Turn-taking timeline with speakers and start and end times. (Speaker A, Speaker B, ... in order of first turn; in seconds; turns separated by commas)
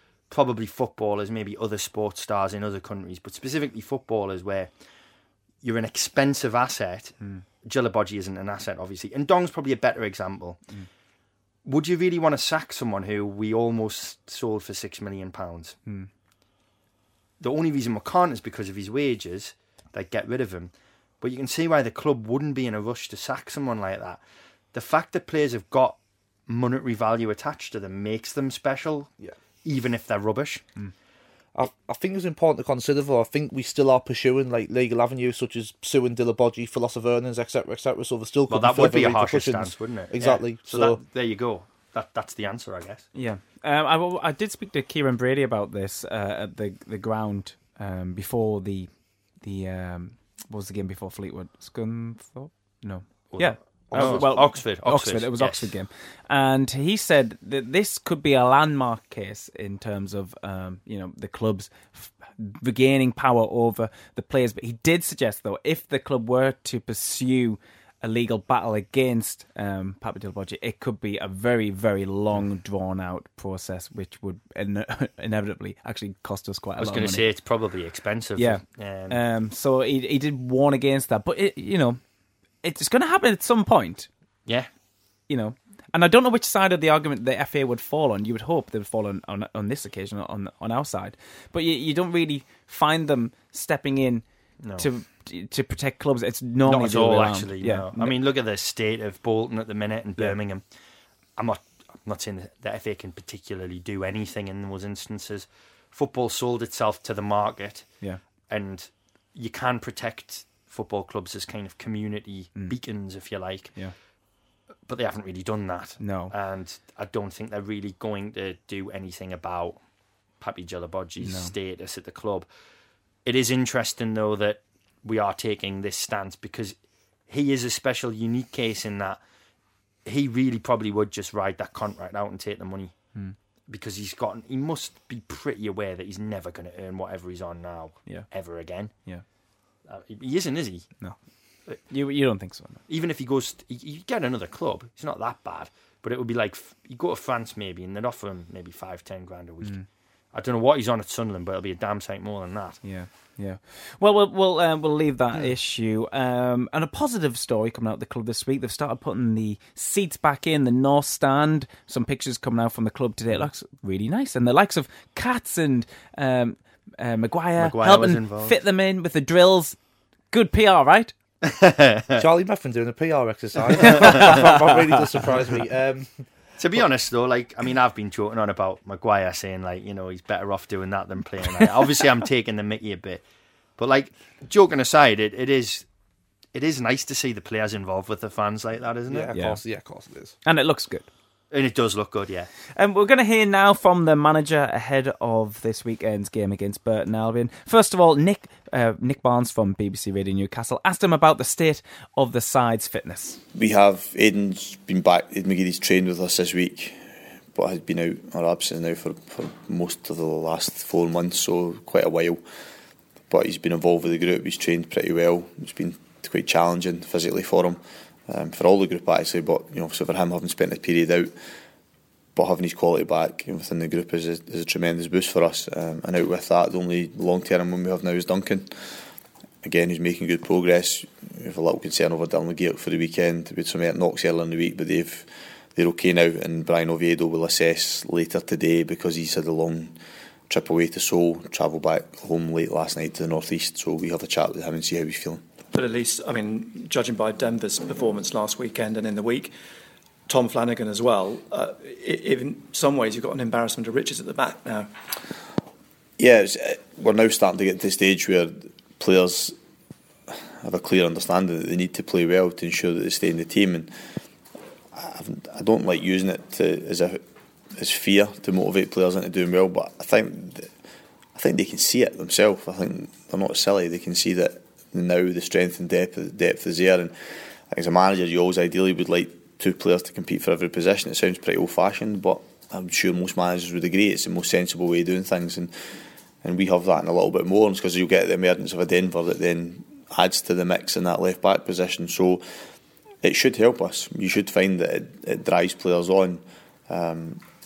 Speaker A: 0.3-4.7, Speaker A: 5.6-10.6, Speaker A: 11.7-15.8, Speaker A: 17.4-24.2, Speaker A: 24.7-29.1, Speaker A: 29.6-30.6, Speaker B: 31.6-41.0, Speaker A: 38.5-43.1, Speaker C: 43.1-77.2, Speaker A: 53.3-55.7, Speaker B: 53.9-54.3, Speaker A: 76.8-79.2, Speaker C: 78.4-82.0, Speaker C: 82.6-84.1, Speaker C: 85.3-94.2, Speaker A: 94.6-94.9, Speaker C: 94.8-98.2, Speaker A: 96.7-100.6, Speaker A: 101.4-107.9, Speaker A: 108.5-113.8, Speaker A: 114.9-119.8, Speaker C: 116.0-116.3, Speaker A: 120.4-122.5, Speaker C: 121.2-121.5, Speaker A: 123.2-126.8, Speaker A: 127.3-129.2, Speaker A: 130.1-132.9, Speaker A: 133.7-138.9, Speaker A: 139.9-140.9, Speaker C: 141.9-142.8, Speaker A: 142.9-149.8, Speaker A: 150.3-152.8, Speaker C: 152.8-169.8, Speaker A: 167.6-168.6, Speaker C: 170.3-171.1, Speaker A: 171.4-172.2, Speaker B: 172.2-176.2, Speaker C: 173.9-174.5, Speaker A: 174.0-174.3, Speaker A: 176.6-183.2, Speaker A: 183.8-185.9, Speaker A: 186.5-189.3, Speaker B: 189.1-190.4, Speaker C: 189.3-189.6, Speaker C: 190.4-191.1, Speaker A: 191.5-192.5, Speaker C: 192.7-203.4, Speaker D: 203.5-212.4, Speaker D: 213.3-221.3, Speaker D: 222.3-228.7, Speaker D: 229.6-240.0, Speaker D: 240.5-245.4, Speaker E: 245.7-249.5, Speaker E: 250.3-254.9, Speaker D: 256.2-259.6, Speaker D: 260.3-263.9, Speaker D: 264.9-267.2, Speaker D: 267.8-270.7, Speaker D: 271.4-292.4, Speaker D: 293.2-297.4